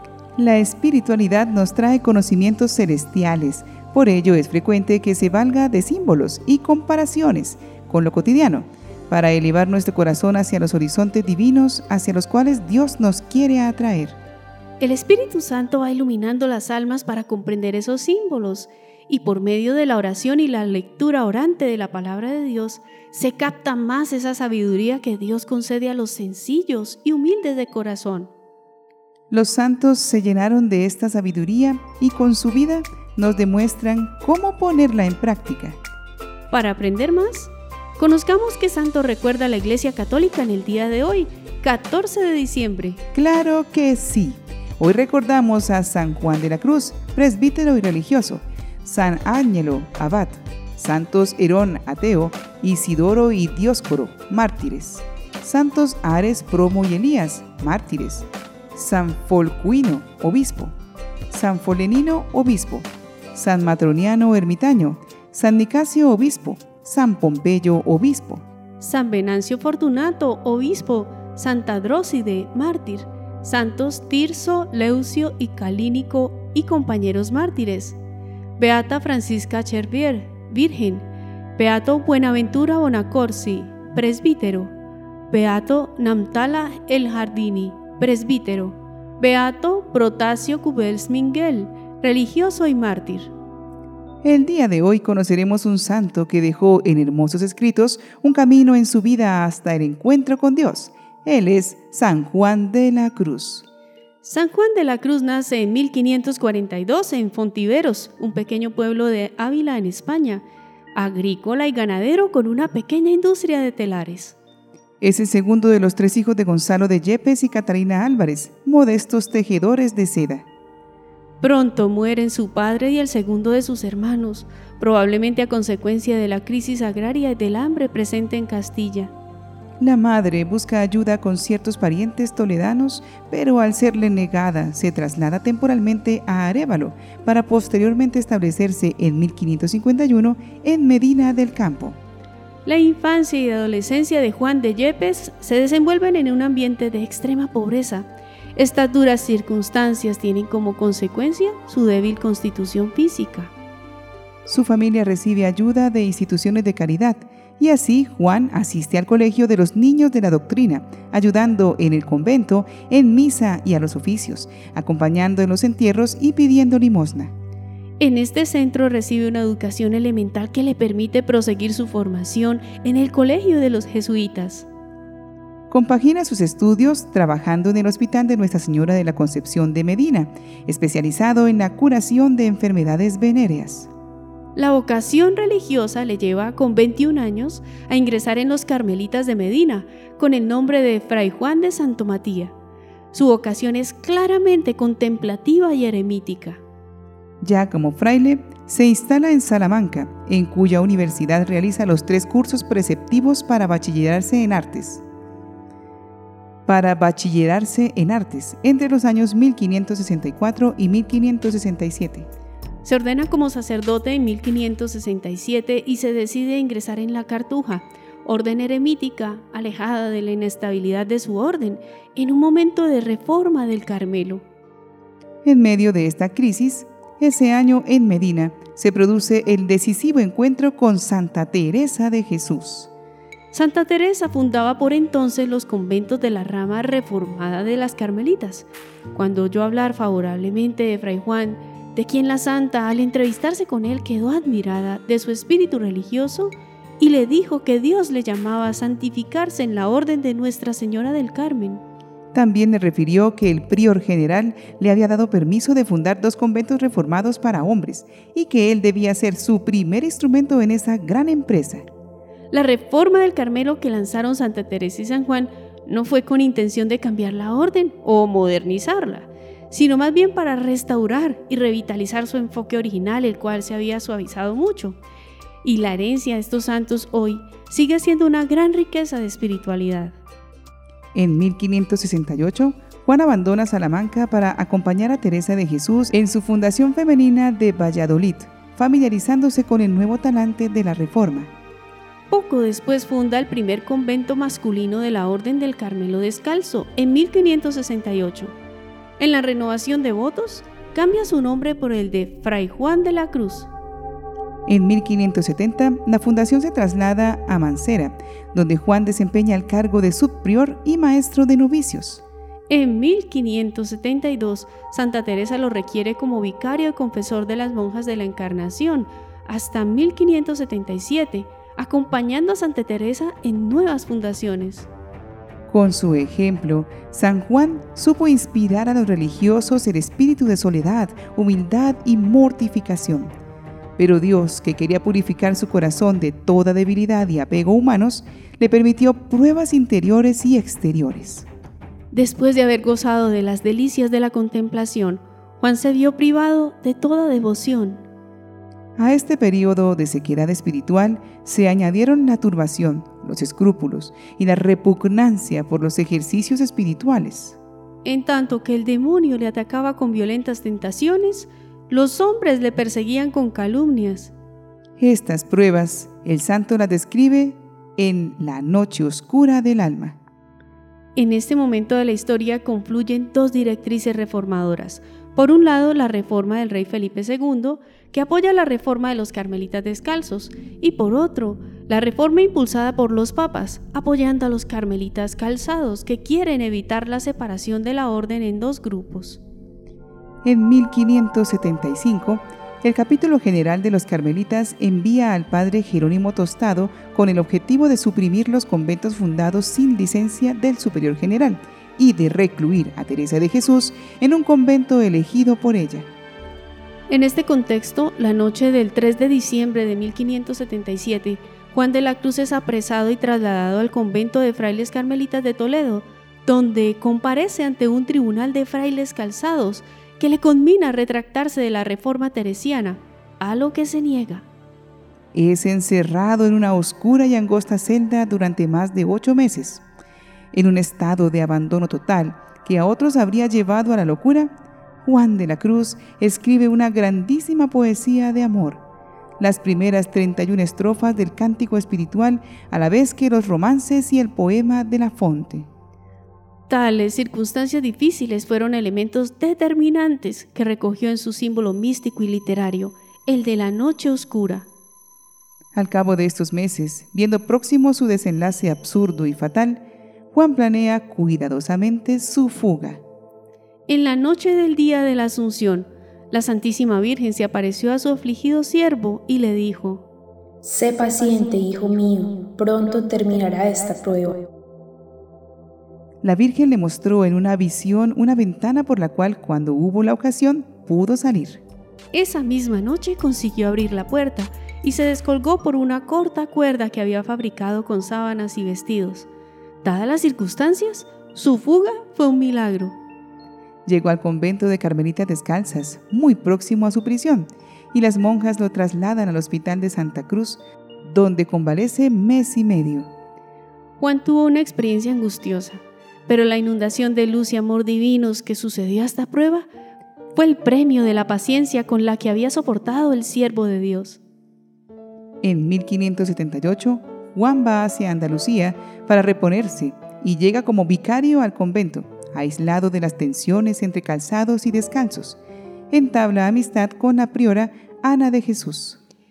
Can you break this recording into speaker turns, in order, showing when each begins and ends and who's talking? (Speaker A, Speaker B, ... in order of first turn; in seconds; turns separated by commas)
Speaker A: 0.4-14.2, Speaker B: 14.8-28.3, Speaker A: 29.3-35.8, Speaker B: 36.5-43.0, Speaker A: 43.1-60.7, Speaker A: 61.3-68.4, Speaker B: 68.8-78.0, Speaker B: 78.6-84.7, Speaker B: 85.3-93.3, Speaker A: 94.2-103.7, Speaker B: 104.2-110.4, Speaker B: 111.0-114.4, Speaker A: 115.0-120.5, Speaker B: 121.4-129.1, Speaker A: 129.8-142.0, Speaker B: 142.7-153.5, Speaker A: 154.5-167.3, Speaker B: 168.0-174.7, Speaker A: 175.7-183.9, Speaker B: 184.6-192.5, Speaker B: 193.1-196.6, Speaker A: 197.4-205.0, Speaker A: 206.7-212.3, Speaker B: 212.8-224.4, Speaker A: 225.4-232.9, Speaker B: 233.5-251.8, Speaker A: 252.3-261.9, Speaker B: 262.5-275.0, Speaker B: 275.6-280.2, Speaker A: 281.1-291.5, Speaker B: 292.3-298.6, Speaker B: 299.2-303.7, Speaker A: 304.7-312.2, Speaker B: 312.7-324.9, Speaker A: 325.7-333.3, Speaker A: 334.0-341.5, Speaker B: 342.1-348.0, Speaker A: 349.0-357.6, Speaker B: 358.1-364.3, Speaker A: 365.0-370.2, Speaker B: 371.2-389.4, Speaker A: 390.4-406.1, Speaker B: 407.1-424.5, Speaker A: 425.3-429.8, Speaker A: 430.5-434.5, Speaker A: 435.1-438.8, Speaker A: 439.4-445.7, Speaker B: 446.7-454.7, Speaker A: 455.7-463.0, Speaker B: 463.9-470.1, Speaker C: 470.6-474.4, Speaker A: 476.2-481.6, Speaker B: 482.1-489.3, Speaker B: 489.8-493.0, Speaker A: 493.9-503.1, Speaker B: 504.0-509.7, Speaker B: 510.4-514.2, Speaker A: 515.4-525.4, Speaker A: 525.9-529.0